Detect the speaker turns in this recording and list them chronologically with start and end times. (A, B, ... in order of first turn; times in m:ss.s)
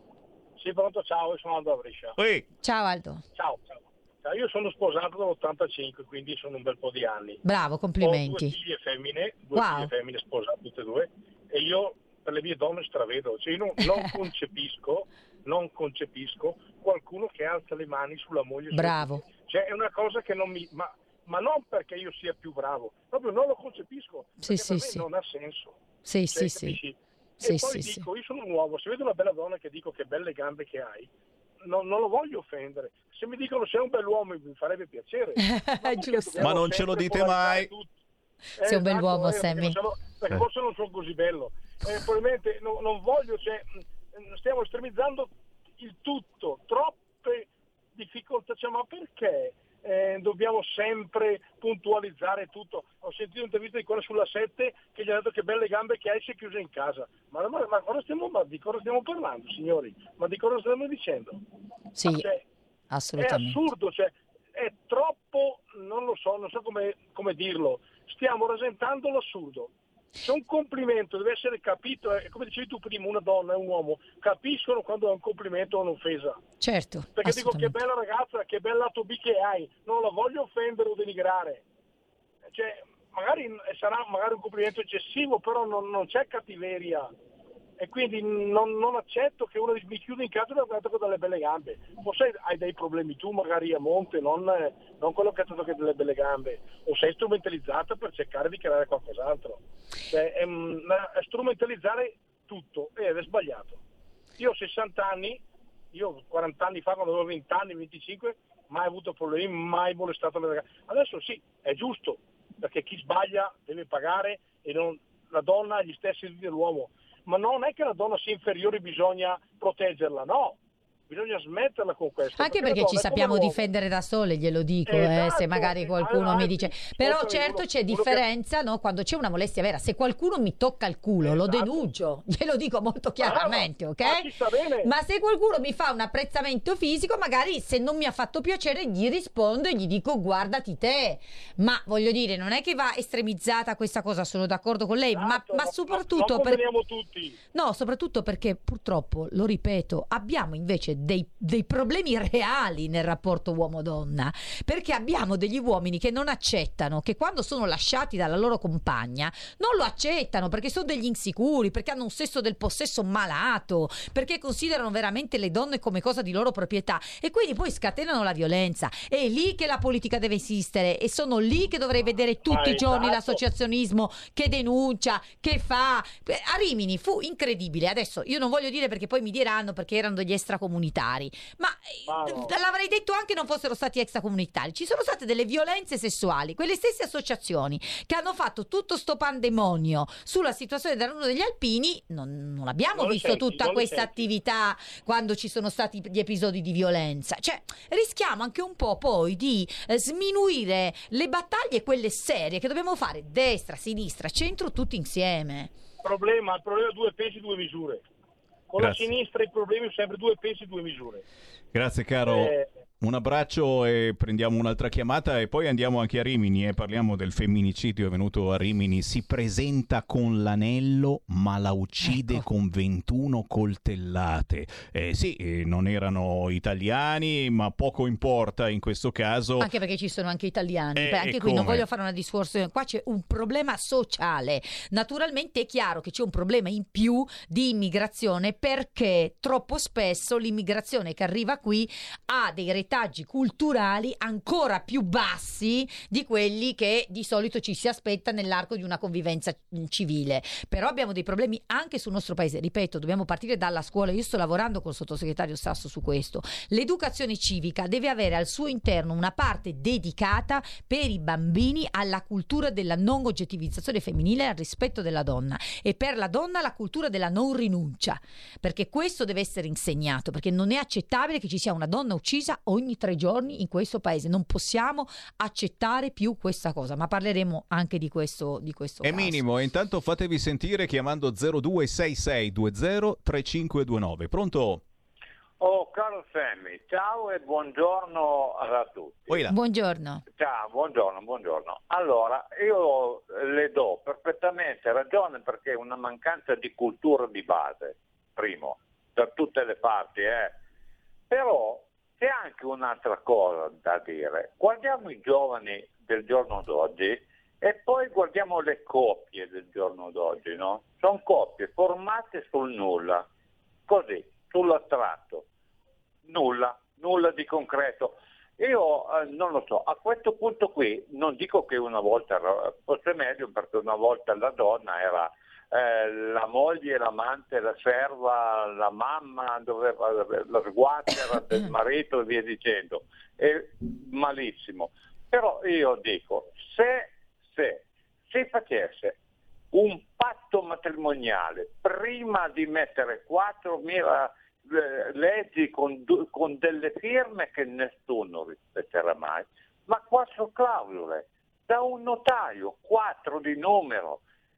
0:00.6-0:02.2 A
0:02.2-0:02.5 B
0:02.6-0:03.2 C
0:03.4-0:07.4 A
0:07.4-0:08.5 C
0:08.0-0:25.8 A
0:09.5-0:09.9 C
0:18.7-0:19.2 C
0:24.4-0:25.0 C
0:26.0-0:26.8 C
0:26.3-0:31.1 A
0:27.4-0:28.0 C
0:31.6-0:37.9 A
0:35.4-0:36.5 C
0:36.4-0:37.7 B
0:38.6-1:01.4 A
0:38.6-0:39.8 C
1:02.0-1:02.3 C
1:02.1-1:02.4 A
1:02.9-1:03.6 C
1:03.2-1:09.7 A
1:10.2-1:16.4 A
1:16.6-1:17.8 C
1:17.2-1:21.6 A
1:22.5-1:27.1 A
1:27.8-1:39.6 A
1:40.1-1:43.8 A
1:44.4-1:45.4 A
1:45.9-2:00.6 A
2:01.1-2:03.6 A
2:02.4-2:14.3 C
2:04.9-2:08.2 A
2:11.2-2:11.9 A
2:13.2-2:14.9 A
2:14.8-2:26.6 C
2:25.2-2:27.4 A
2:27.5-3:25.7 C
2:52.5-2:53.4 A
3:02.1-3:02.5 A
3:13.0-3:14.2 A
3:26.0-3:28.0 A
3:28.7-3:31.2 A
3:28.8-3:29.1 B
3:31.7-3:49.7 B
3:32.3-3:32.7 A
3:42.1-3:42.4 C
3:49.6-4:39.4 C
3:51.0-3:51.8 B
4:39.0-4:44.8 B
4:45.6-4:49.4 D
4:49.3-4:49.6 B
4:49.5-4:50.2 C
4:50.4-5:00.6 D
5:01.3-5:13.3 D
5:13.9-5:15.5 D
5:16.3-5:39.2 D
5:39.7-5:54.2 D